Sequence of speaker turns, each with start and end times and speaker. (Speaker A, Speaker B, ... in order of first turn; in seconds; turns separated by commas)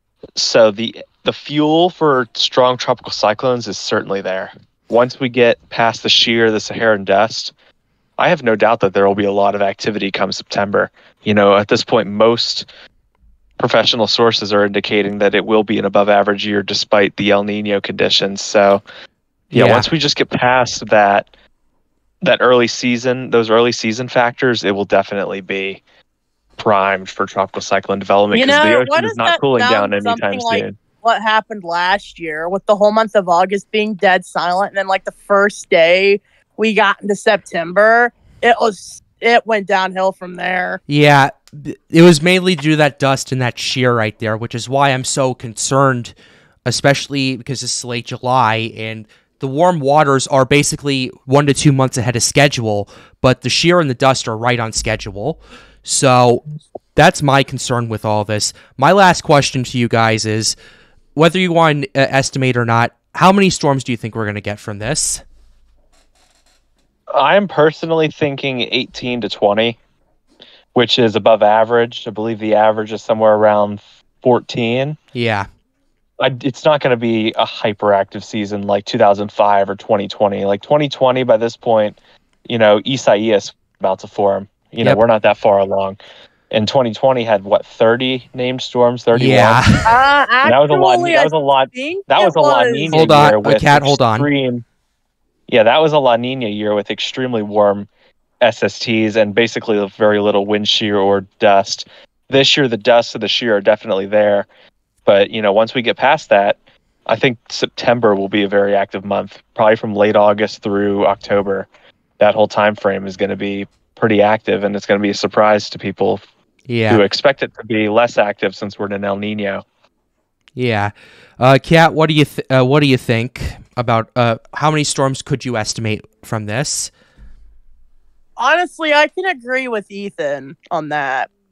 Speaker A: 0.4-7.5, Speaker A: 8.2-12.7, Speaker A: 13.6-18.8, Speaker A: 19.5-21.3, Speaker B: 19.6-19.9, Speaker A: 22.2-25.8, Speaker A: 26.6-30.8, Speaker C: 28.3-40.8, Speaker B: 40.9-46.1, Speaker B: 46.7-56.4, Speaker B: 57.0-60.6, Speaker B: 61.2-65.2, Speaker A: 67.1-69.8, Speaker A: 70.8-75.0, Speaker B: 75.2-75.5, Speaker A: 76.2-86.0, Speaker A: 86.5-89.7, Speaker B: 89.2-89.9, Speaker C: 89.8-93.0, Speaker A: 90.4-94.6, Speaker B: 92.9-94.3, Speaker A: 95.5-97.9, Speaker A: 98.4-104.5, Speaker A: 105.1-106.6, Speaker A: 107.1-111.7, Speaker A: 112.2-116.2, Speaker B: 116.7-117.0, Speaker A: 116.9-119.6, Speaker B: 120.6-126.9, Speaker C: 128.4-131.3